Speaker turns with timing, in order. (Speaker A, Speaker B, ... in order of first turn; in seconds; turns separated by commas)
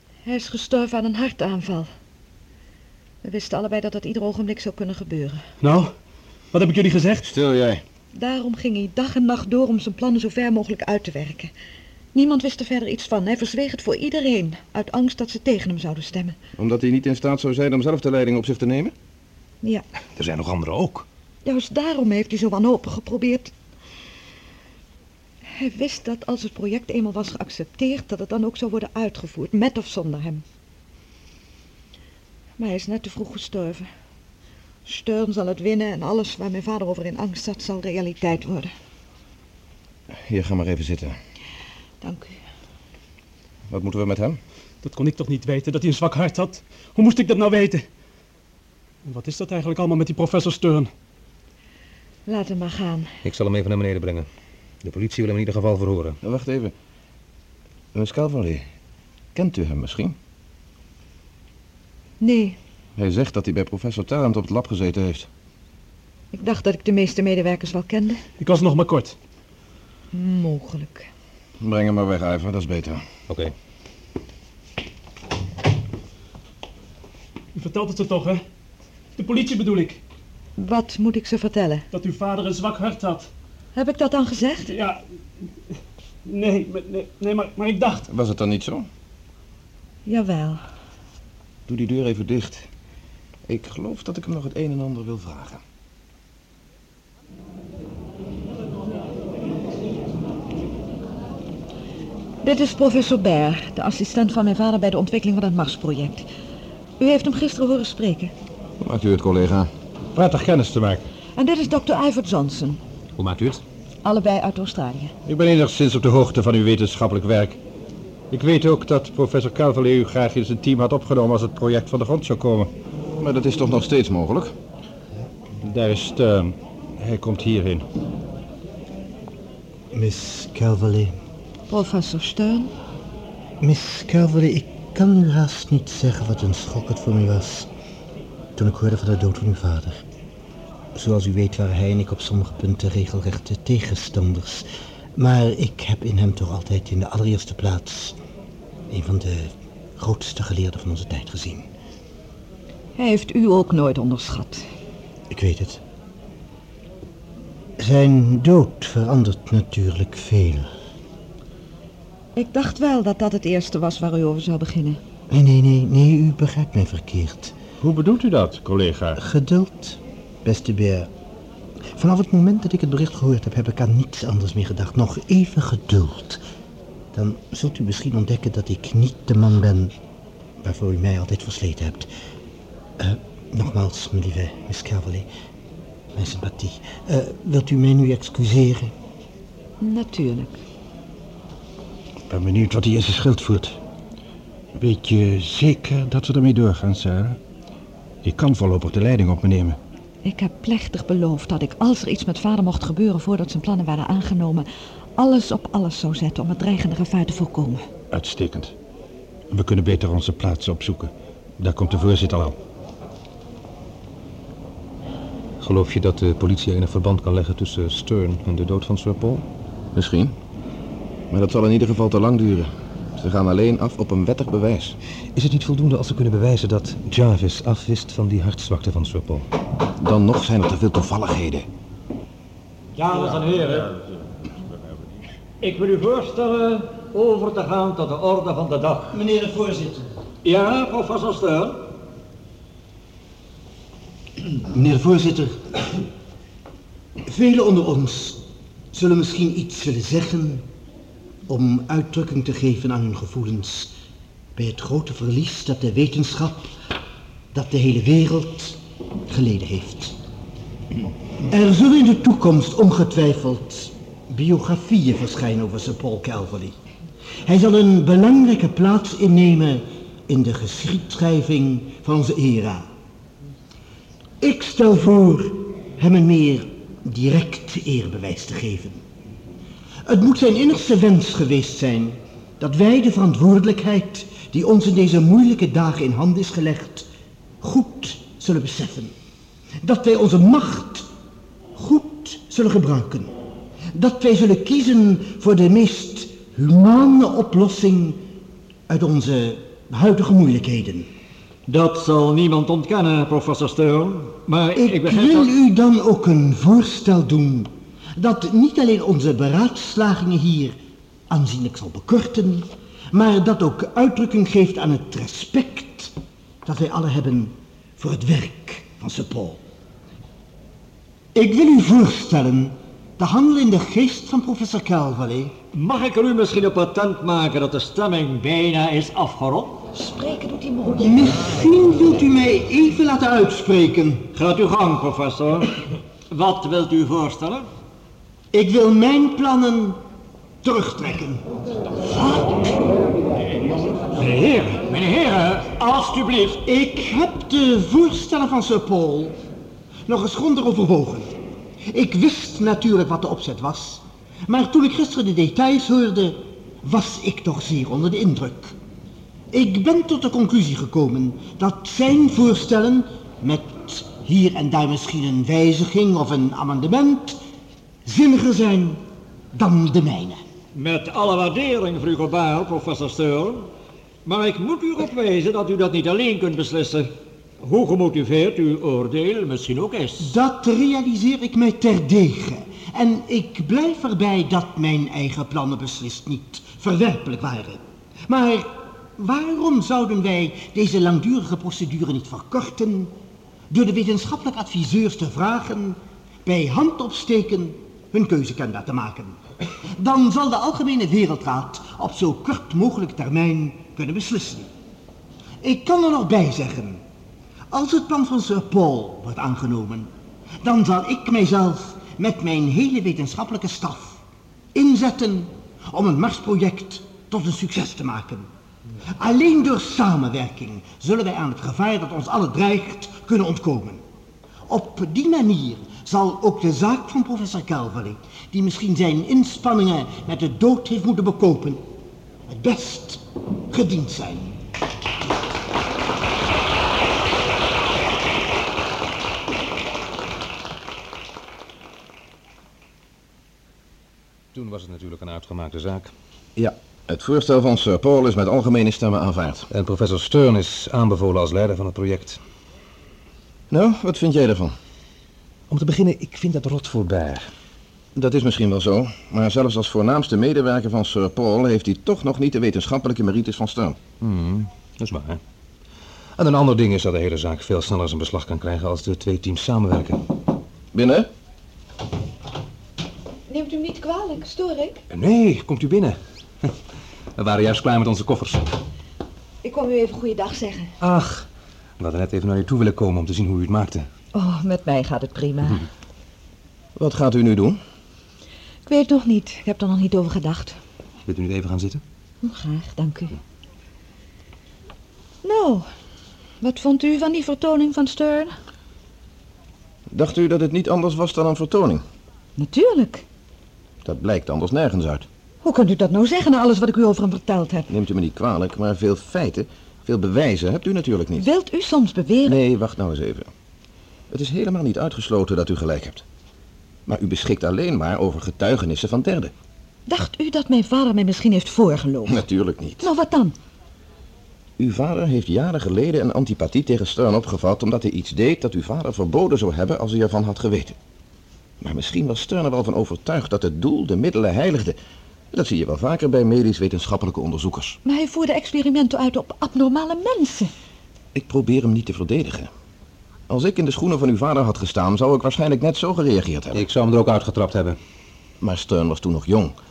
Speaker A: 0.2-1.9, Speaker A: 3.2-5.4, Speaker B: 5.6-5.9, Speaker B: 6.5-7.3, Speaker C: 7.2-7.8, Speaker A: 8.2-11.5, Speaker A: 12.1-16.4, Speaker C: 16.6-18.9, Speaker D: 20.2-21.1, Speaker A: 21.4-23.5, Speaker A: 25.5-30.4, Speaker A: 32.6-33.9, Speaker A: 34.9-38.7, Speaker C: 40.2-41.2, Speaker A: 42.0-42.4, Speaker C: 43.7-44.4, Speaker B: 44.8-47.9, Speaker B: 49.0-50.9, Speaker A: 52.3-53.1, Speaker D: 53.2-54.3, Speaker D: 54.8-56.2, Speaker C: 56.2-56.7, Speaker C: 57.9-58.6, Speaker C: 59.4-60.2, Speaker A: 62.2-62.6, Speaker C: 63.0-65.3, Speaker A: 66.3-68.2, Speaker B: 68.4-69.2, Speaker A: 70.1-71.1, Speaker C: 71.6-73.0, Speaker B: 77.5-78.4, Speaker B: 79.2-80.0, Speaker A: 80.6-81.9, Speaker B: 81.9-83.3, Speaker A: 83.8-84.7, Speaker B: 84.7-85.0, Speaker B: 86.2-88.1, Speaker C: 88.1-88.9, Speaker A: 90.1-90.6, Speaker C: 91.7-92.7, Speaker C: 93.5-95.6, Speaker A: 102.4-106.3, Speaker A: 107.0-108.3, Speaker C: 108.8-109.7, Speaker E: 110.1-111.0, Speaker A: 111.4-112.8, Speaker D: 113.2-113.6, Speaker A: 114.0-115.1, Speaker E: 115.2-117.6, Speaker E: 118.3-122.7, Speaker C: 123.2-124.5, Speaker E: 125.6-127.8, Speaker F: 129.9-131.1, Speaker A: 131.7-132.7, Speaker F: 133.6-137.7, Speaker F: 138.6-140.1, Speaker F: 140.9-144.7, Speaker F: 145.2-148.2, Speaker F: 148.9-151.7, Speaker A: 153.0-154.7, Speaker F: 155.3-155.8, Speaker F: 157.8-160.7, Speaker A: 162.4-165.0, Speaker F: 165.3-167.6, Speaker E: 167.8-169.2, Speaker F: 169.2-171.1, Speaker F: 172.0-176.4, Speaker F: 177.1-179.9, Speaker F: 180.6-182.1, Speaker F: 183.0-185.3, Speaker F: 186.1-188.9, Speaker A: 189.8-190.6, Speaker E: 192.3-193.8, Speaker E: 194.8-197.4, Speaker E: 198.2-199.8, Speaker A: 200.2-204.7, Speaker A: 205.2-207.8, Speaker E: 208.1-208.7, Speaker E: 209.5-212.6, Speaker D: 215.6-219.4, Speaker C: 219.9-220.3, Speaker C: 221.3-225.0, Speaker D: 225.3-229.5, Speaker C: 230.0-231.7, Speaker G: 233.0-234.0, Speaker G: 235.6-239.2, Speaker F: 239.1-240.1, Speaker G: 240.4-241.9, Speaker F: 244.7-245.6, Speaker F: 247.2-250.7, Speaker F: 251.5-254.0, Speaker F: 254.6-256.7, Speaker F: 257.5-260.2, Speaker F: 261.5-266.8, Speaker F: 267.5-272.9, Speaker F: 274.4-279.0, Speaker F: 280.1-287.1, Speaker F: 287.6-289.1, Speaker F: 289.8-291.1, Speaker F: 291.8-293.3, Speaker F: 293.9-298.2, Speaker F: 298.9-301.1, Speaker G: 301.7-305.5, Speaker F: 304.8-310.8, Speaker F: 311.3-319.6, Speaker F: 321.3-325.6, Speaker G: 325.7-329.8, Speaker A: 329.9-331.3, Speaker F: 330.9-334.3, Speaker G: 334.3-337.7, Speaker F: 338.5-340.0, Speaker F: 340.6-341.4, Speaker G: 344.1-346.6, Speaker F: 346.6-349.4, Speaker F: 350.1-351.3, Speaker F: 351.9-358.8, Speaker F: 359.5-367.4, Speaker F: 368.1-369.0, Speaker F: 369.5-370.4, Speaker G: 370.8-373.7, Speaker G: 374.2-377.1, Speaker G: 377.6-380.3, Speaker F: 380.2-393.1, Speaker F: 393.7-399.4, Speaker F: 399.9-404.7, Speaker F: 405.6-407.0, Speaker F: 407.7-410.1, Speaker F: 410.6-414.2, Speaker F: 414.7-418.5, Speaker F: 419.1-424.0, Speaker F: 424.7-431.9, Speaker F: 432.5-434.6, Speaker D: 444.5-446.1, Speaker C: 446.6-449.7, Speaker D: 449.7-452.4, Speaker C: 453.7-454.7, Speaker D: 455.7-457.5, Speaker C: 458.1-464.0, Speaker D: 464.2-465.4, Speaker D: 466.4-470.2, Speaker C: 470.9-471.3, Speaker A: 473.5-475.0, Speaker D: 475.1-476.7, Speaker D: 477.4-478.7, Speaker A: 479.6-480.9, Speaker D: 481.0-481.5, Speaker D: 482.0-484.1, Speaker A: 484.3-485.8, Speaker C: 487.0-487.8, Speaker A: 488.9-490.8, Speaker D: 491.3-492.0, Speaker A: 492.4-493.4, Speaker A: 495.4-495.9, Speaker A: 496.6-498.6, Speaker C: 500.1-502.0, Speaker A: 502.6-503.2, Speaker C: 504.0-505.3, Speaker A: 505.6-507.9, Speaker C: 507.9-511.5, Speaker A: 511.4-512.6, Speaker C: 512.5-513.5, Speaker C: 514.3-516.2, Speaker C: 517.1-519.5, Speaker A: 520.1-522.4, Speaker C: 522.3-523.1, Speaker A: 523.0-523.5, Speaker C: 524.8-531.0, Speaker C: 531.8-535.0, Speaker C: 535.5-538.0, Speaker A: 538.0-540.7, Speaker C: 541.3-542.7, Speaker C: 543.5-546.8, Speaker D: 546.7-548.0, Speaker C: 548.6-549.7